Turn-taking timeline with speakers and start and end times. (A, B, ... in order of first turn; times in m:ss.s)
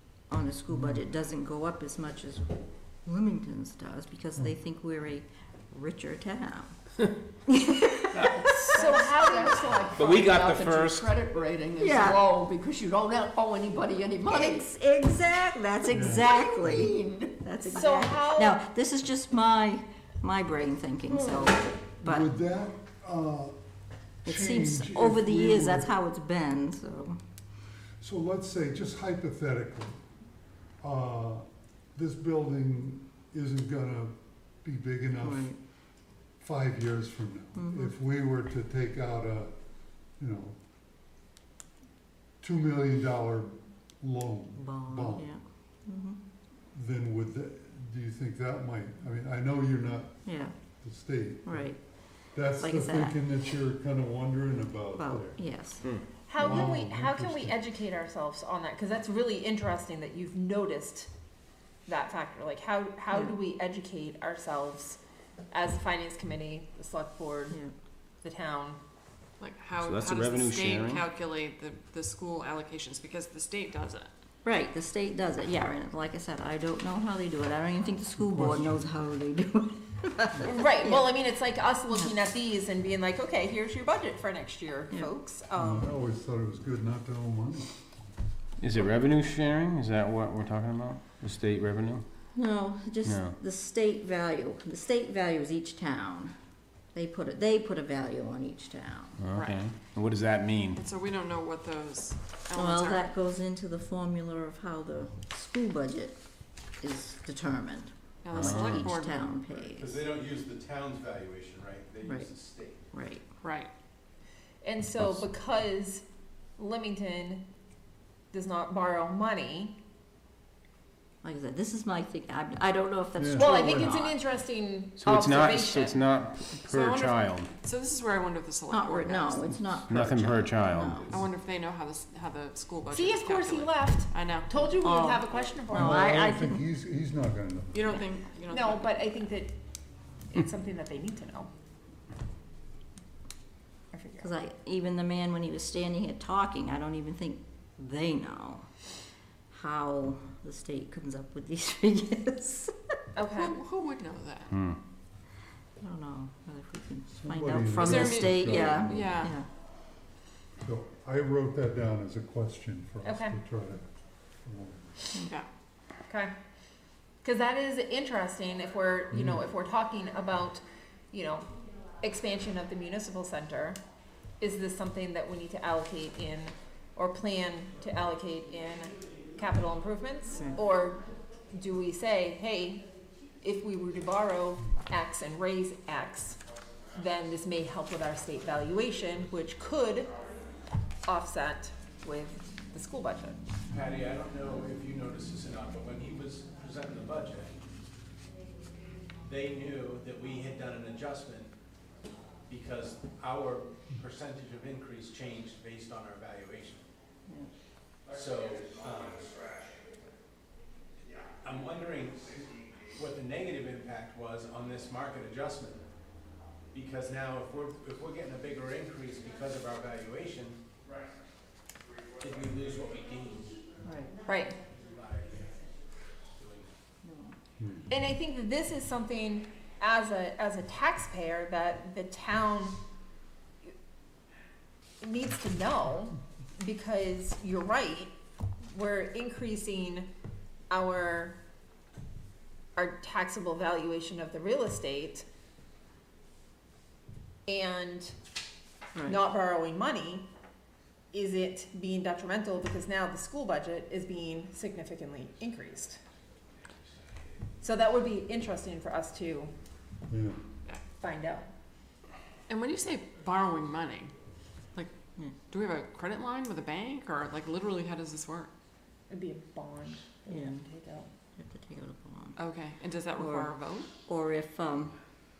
0:00.3-0:02.5 A
0:00.7-0:01.0 B
0:03.0-0:06.7 A
0:07.5-0:08.5 A
0:08.2-0:14.7 C
0:08.6-0:10.2 D
0:10.0-0:11.2 E
0:11.8-0:12.2 A
0:14.3-0:22.3 A
0:15.9-0:16.9 B
0:16.4-0:17.3 C
0:17.7-0:18.6 D
0:22.0-0:23.6 B
0:24.2-0:25.9 B
0:24.2-0:27.2 A
0:28.0-0:30.0 B
0:30.8-0:35.6 B
0:35.2-0:35.6 A
0:36.4-0:39.5 B
0:37.6-0:37.9 A
0:40.2-0:40.6 B
0:42.4-0:45.3 B
0:44.6-0:46.2 A
0:46.7-0:51.8 B
0:50.3-0:50.6 A
0:51.5-0:51.8 A
0:52.3-0:55.4 B
0:52.6-0:53.2 A
0:55.0-0:55.9 A
0:56.3-1:01.1 D
0:56.4-0:57.6 B
1:01.9-1:05.0 D
1:05.5-1:07.6 D
1:08.2-1:08.8 D
1:09.4-1:14.1 F
1:09.8-1:11.0 E
1:14.4-1:21.1 A
1:18.2-1:18.9 B
1:20.4-1:25.9 D
1:25.6-1:27.8 B
1:28.6-1:32.0 E
1:32.3-1:36.4 A
1:33.0-1:33.4 E
1:36.9-1:39.2 A
1:39.2-1:40.8 E
1:39.3-1:39.8 F
1:40.8-1:43.1 F
1:42.6-1:46.2 A
1:46.8-1:50.0 A
1:48.2-1:49.3 F
1:48.3-1:48.9 E
1:49.7-1:52.8 G
1:52.0-1:52.3 A
1:52.9-1:53.2 A
1:53.4-1:53.7 F
1:54.6-1:56.0 D
1:56.6-1:57.5 D
1:58.3-1:59.8 D
2:01.2-2:04.2 A
2:03.2-2:04.0 B
2:03.4-2:06.0 D
2:05.0-2:07.5 E
2:06.6-2:09.6 F
2:08.7-2:11.2 A
2:09.9-2:11.2 E
2:11.1-2:14.6 F
2:12.9-2:16.5 D
2:14.8-2:16.6 A
2:15.7-2:17.8 B
2:17.7-2:19.2 F
2:18.5-2:19.6 D
2:20.3-2:21.5 D
2:23.9-2:24.3 D
2:24.2-2:28.7 A
2:29.5-2:32.7 A
2:33.2-2:33.6 D
2:33.3-2:34.6 F
2:34.5-2:34.8 E
2:35.8-2:39.5 A
2:37.1-2:39.3 B
2:37.8-2:39.4 F
2:40.6-2:43.8 B
2:43.0-2:43.4 D
2:44.4-2:45.0 B
2:45.2-2:45.5 F
2:47.2-2:51.5 D
2:49.1-2:49.5 B
2:52.0-2:53.8 D
2:54.4-3:02.9 D
3:03.4-3:06.4 D
3:07.0-3:10.1 D
3:11.1-3:13.4 D
3:13.7-3:17.6 G
3:19.2-3:21.5 G
3:22.5-3:26.8 G
3:28.1-3:29.3 G
3:31.4-3:35.8 G
3:36.7-3:40.6 G
3:42.2-3:43.6 G
3:43.8-3:44.1 A
3:44.3-3:44.6 D
3:44.7-3:45.5 G
3:46.4-3:46.7 G
3:47.0-3:47.4 A
3:47.6-3:47.9 B
3:47.9-3:52.8 D
3:55.0-3:58.1 D
3:58.7-4:00.1 D
4:00.7-4:01.4 D
4:02.8-4:05.3 D
4:07.5-4:08.2 D
4:09.0-4:09.2 A
4:09.0-4:10.3 D
4:11.1-4:16.0 D
4:17.6-4:19.5 D
4:20.1-4:20.4 B
4:21.0-4:21.5 D
4:22.5-4:24.1 F
4:25.5-4:28.5 F
4:29.1-4:31.1 D
4:30.3-4:30.7 A
4:31.4-4:32.4 A
4:32.4-4:33.9 F
4:33.2-4:34.9 A